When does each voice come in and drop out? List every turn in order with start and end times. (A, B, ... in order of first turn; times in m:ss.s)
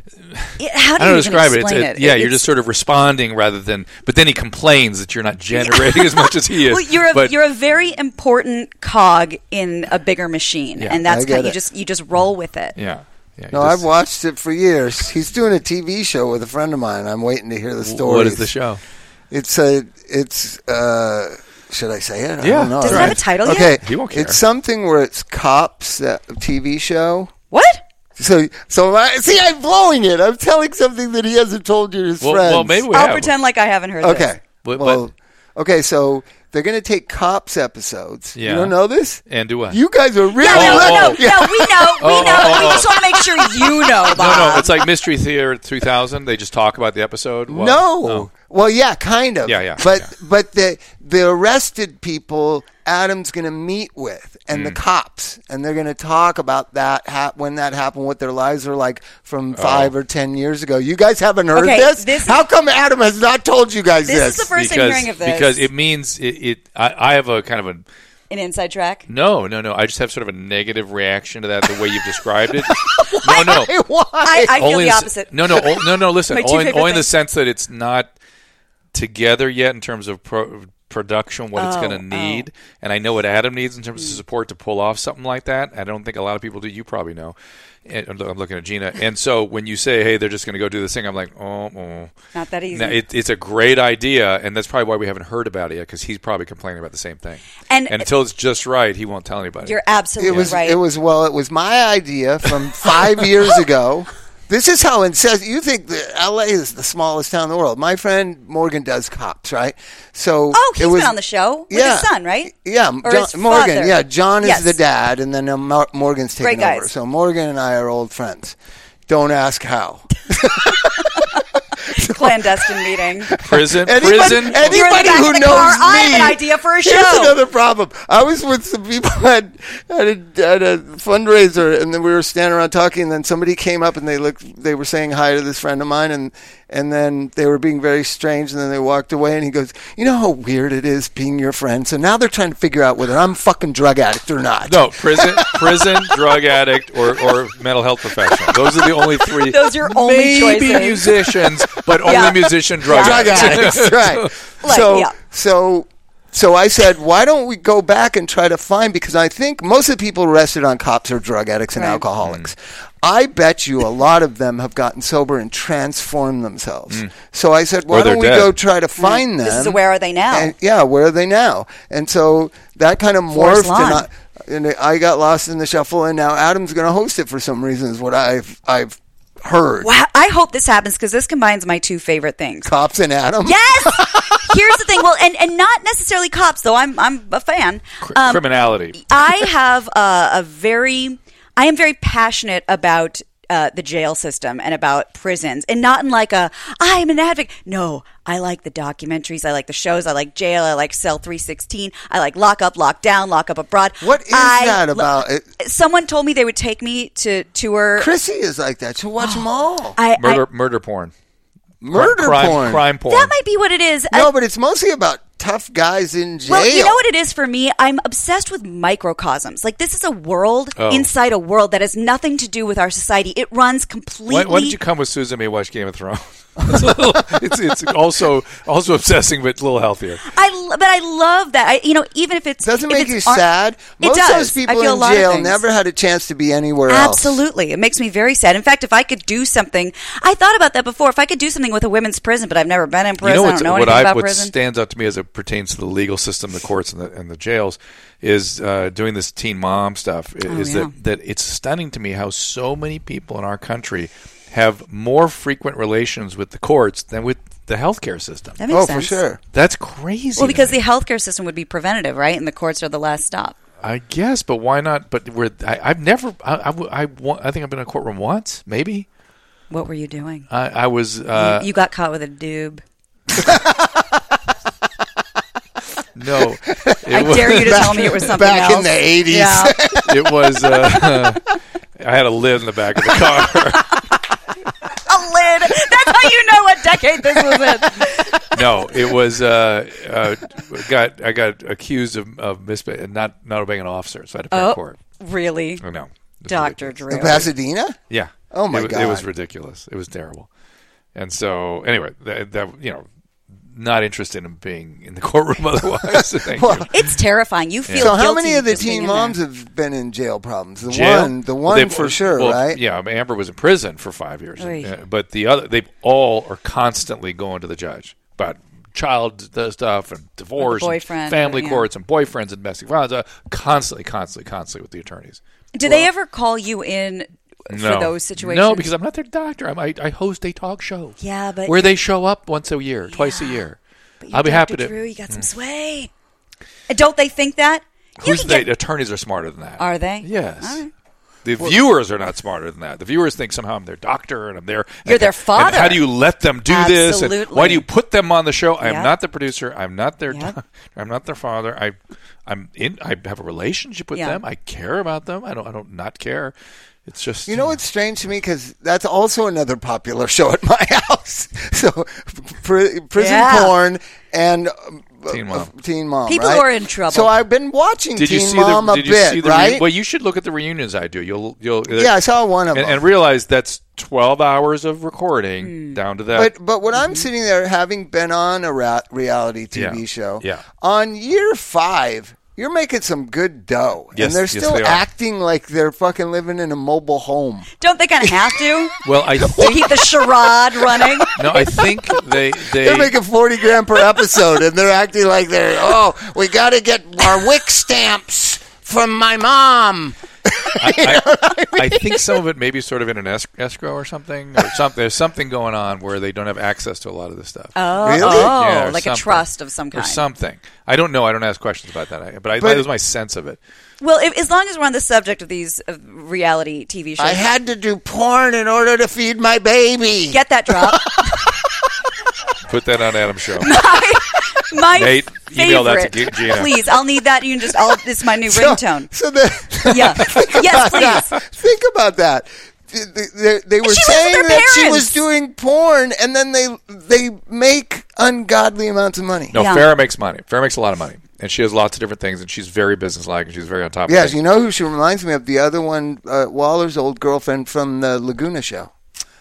0:00.2-0:07.4 A
0:00.6-0:02.4 B
0:05.5-0:12.7 B
0:11.0-0:11.6 C
0:12.8-0:13.8 A
0:13.5-0:18.5 C
0:17.8-0:18.8 A
0:19.3-0:27.3 C
0:22.4-0:24.4 A
0:22.8-0:23.7 B
0:27.5-0:27.8 B
0:28.2-0:32.9 C
0:32.2-0:33.3 A
0:32.9-0:34.3 B
0:34.0-0:42.9 C
0:34.6-0:35.0 A
0:38.4-0:38.7 A
0:39.3-0:39.8 A
0:40.4-0:44.8 B
0:40.5-0:41.3 A
0:42.0-0:43.0 A
0:44.0-0:48.3 A
0:47.5-1:04.5 C
0:49.4-0:50.0 A
0:54.5-0:54.8 A
0:59.5-0:59.9 A
1:01.5-1:02.4 B
1:04.0-1:05.6 B
1:04.5-1:07.8 A
1:08.3-1:09.0 B
1:09.1-1:13.7 A
1:11.7-1:11.9 C
1:12.6-1:14.6 C
1:14.2-1:15.6 B
1:14.5-1:18.1 A
1:16.3-1:17.1 B
1:18.9-1:32.1 A
1:21.6-1:22.4 B
1:32.3-1:33.0 B
1:32.7-1:40.5 A
1:37.7-1:38.1 B
1:39.6-1:40.8 B
1:40.2-1:51.2 C
1:50.5-1:54.8 B
1:51.7-1:58.6 C
1:56.4-1:56.9 B
1:59.1-2:01.3 C
2:01.9-2:26.0 C
2:01.9-2:03.3 B
2:03.4-2:05.1 A
2:04.1-2:07.4 B
2:24.6-2:34.3 A
2:29.2-2:31.1 B
2:32.0-2:33.9 B
2:32.9-2:59.9 C
2:34.6-2:35.1 B
2:41.7-2:42.0 B
2:42.2-2:42.5 A
2:47.9-2:48.5 A
2:49.0-2:50.5 B
2:53.3-2:54.0 B
2:59.8-3:02.7 B
3:02.6-3:04.5 C
3:03.4-3:08.4 B
3:08.0-3:09.5 A
3:08.9-3:28.1 B
3:24.0-3:25.4 C
3:28.0-3:30.0 C
3:29.2-3:29.4 B
3:30.0-3:30.4 B
3:30.2-3:31.1 A
3:31.8-3:32.8 C
3:31.9-3:33.3 A
3:33.1-3:34.3 B
3:34.1-3:37.0 C
3:36.4-3:44.8 B
3:40.8-3:41.1 A
3:44.3-3:50.2 A
3:46.7-3:47.0 C
3:50.3-3:53.4 B
3:52.6-3:57.4 C
3:54.0-3:55.6 B
3:56.9-4:04.5 B
4:03.2-4:18.6 A
4:10.5-4:10.9 B
4:18.6-4:19.2 B
4:18.7-4:19.4 C
4:19.5-4:20.8 A
4:20.4-4:23.6 B
4:23.8-4:29.1 A
4:29.7-4:30.5 B
4:30.5-4:31.7 A
4:31.3-4:32.8 B
4:33.4-4:34.0 C
4:36.1-4:38.2 A
4:36.8-4:40.3 C
4:37.1-4:39.8 B
4:40.1-4:41.4 A
4:42.0-4:44.0 A
4:45.0-4:48.5 B
4:48.5-4:55.0 A
4:54.5-4:55.8 B
4:55.8-4:57.3 A
4:56.5-4:57.5 B
4:57.1-4:58.0 C
4:58.1-5:00.5 A
4:58.5-4:59.2 C
5:01.1-5:03.0 A
5:03.7-5:06.9 A
5:06.1-5:06.9 C
5:06.9-5:09.4 B
5:07.9-5:08.2 A
5:08.0-5:12.8 C
5:10.9-5:26.0 A
5:14.6-5:14.9 B
5:20.6-5:21.8 B
5:25.7-5:28.9 B
5:27.7-5:33.8 A
5:31.2-5:31.9 B
5:33.1-5:33.6 B
5:34.2-5:36.1 B
5:34.3-5:35.5 A
5:36.9-5:38.7 B
5:38.2-5:40.8 A
5:39.8-5:40.9 B
5:41.4-5:56.5 A
5:45.0-5:46.0 B
5:46.7-5:47.8 B
5:48.8-5:49.1 B
5:50.3-5:50.5 B
5:54.1-5:54.4 B
5:57.0-5:57.8 A
5:57.5-6:09.8 C
6:03.2-6:03.7 B
6:05.3-6:05.7 A
6:06.3-6:07.3 B
6:08.2-6:12.1 A
6:11.9-6:13.0 C
6:12.7-6:16.5 A
6:15.6-6:16.0 B
6:16.3-6:27.7 C
6:17.0-6:17.2 B
6:19.7-6:20.6 A
6:24.1-6:25.0 A
6:27.8-6:31.6 B
6:28.2-6:28.6 C
6:29.0-6:29.9 A
6:29.4-6:30.2 C
6:30.8-6:31.6 C
6:31.3-6:33.1 A
6:32.7-6:42.3 C
6:40.8-6:53.6 A
6:47.7-6:50.2 B
6:48.0-6:48.5 C
6:52.6-6:52.9 C
6:54.0-6:57.4 B
6:57.2-7:01.5 C
7:00.3-7:01.3 B
7:02.7-7:03.7 A
7:03.6-7:09.1 B
7:04.9-7:06.7 A
7:08.4-7:19.5 C
7:09.8-7:11.3 B
7:13.8-7:15.1 B
7:19.5-7:24.4 A
7:19.5-7:19.9 B
7:24.1-7:28.9 C